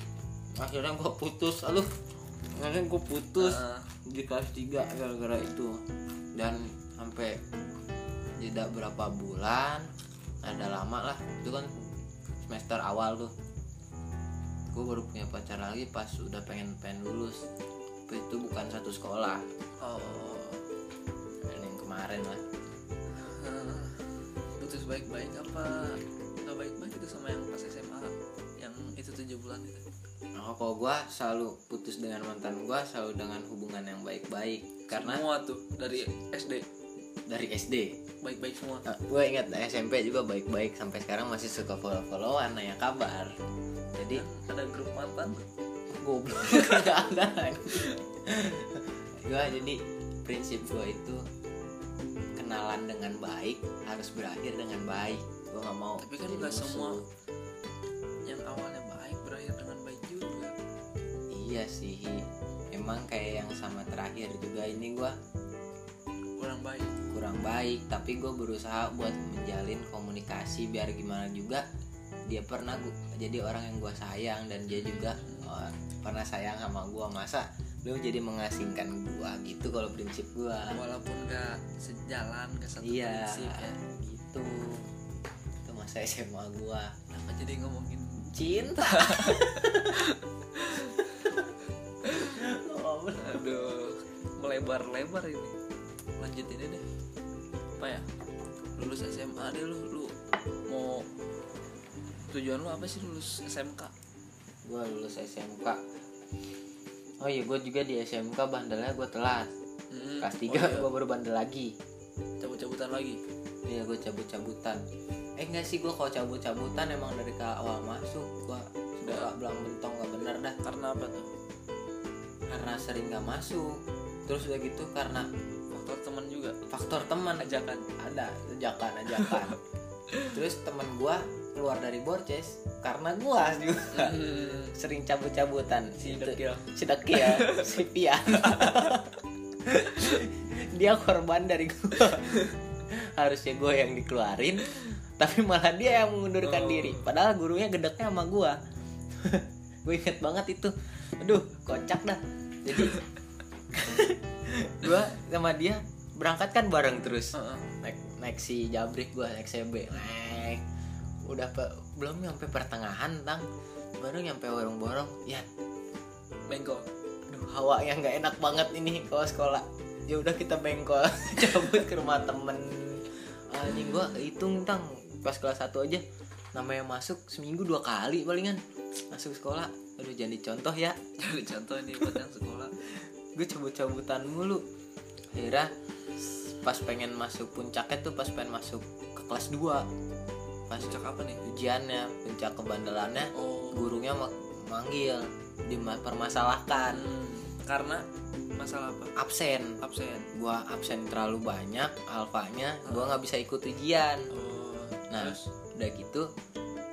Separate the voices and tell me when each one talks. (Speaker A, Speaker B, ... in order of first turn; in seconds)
Speaker A: 0.6-1.9, 2.5-5.8, 6.3-7.4, 8.4-9.9, 10.4-11.7, 12.4-13.3, 14.7-17.4, 18.1-19.4, 21.4-22.4, 30.4-35.2, 37.3-38.0, 38.9-43.4, 44.0-44.2, 45.9-51.2, 52.4-57.0, 61.3-65.2, 67.1-71.6, 72.3-80.7, 82.8-84.9, 85.6-86.9, 88.3-90.0, 90.9-91.4, 92.3-93.5, 104.7-105.8, 107.2-109.5, 110.2-111.8, 113.7-114.8, 115.4-120.6, 122.5-125.3, 126.7-129.6, 130.3-139.1, 139.6-148.6, 149.1-153.0, 153.7-160.6, 161.3-163.5, 164.0-165.5, 167.3-176.0, 176.6-181.0, 183.4-184.6, 185.3-189.8, 190.7-197.1, 199.2-199.8, 200.3-204.3, 205.1-206.3
Speaker B: 3.4-3.9, 19.8-20.7, 23.1-29.9, 34.9-36.7, 38.2-38.9, 44.0-45.5, 46.5-46.9, 56.0-57.0, 58.3-60.5, 66.4-67.0, 74.7-75.5, 80.7-83.8, 87.1-91.4, 92.0-92.4, 93.2-95.5, 96.2-96.9, 97.8-98.1, 98.8-100.1, 100.7-101.1, 102.3-103.9, 109.9-110.9, 112.4-113.2, 119.0-119.3, 120.6-121.3, 125.7-126.6, 127.3-127.9, 129.1-129.5, 133.9-134.8, 136.0-137.8, 138.3-139.0, 142.3-142.5, 146.4-147.1, 152.8-153.0, 157.3-157.7, 166.5-166.9, 181.2-182.7, 190.8-191.4, 193.3-194.0, 196.9-198.1, 198.6-199.1, 199.8-200.3, 202.8-203.2, 204.3-205.5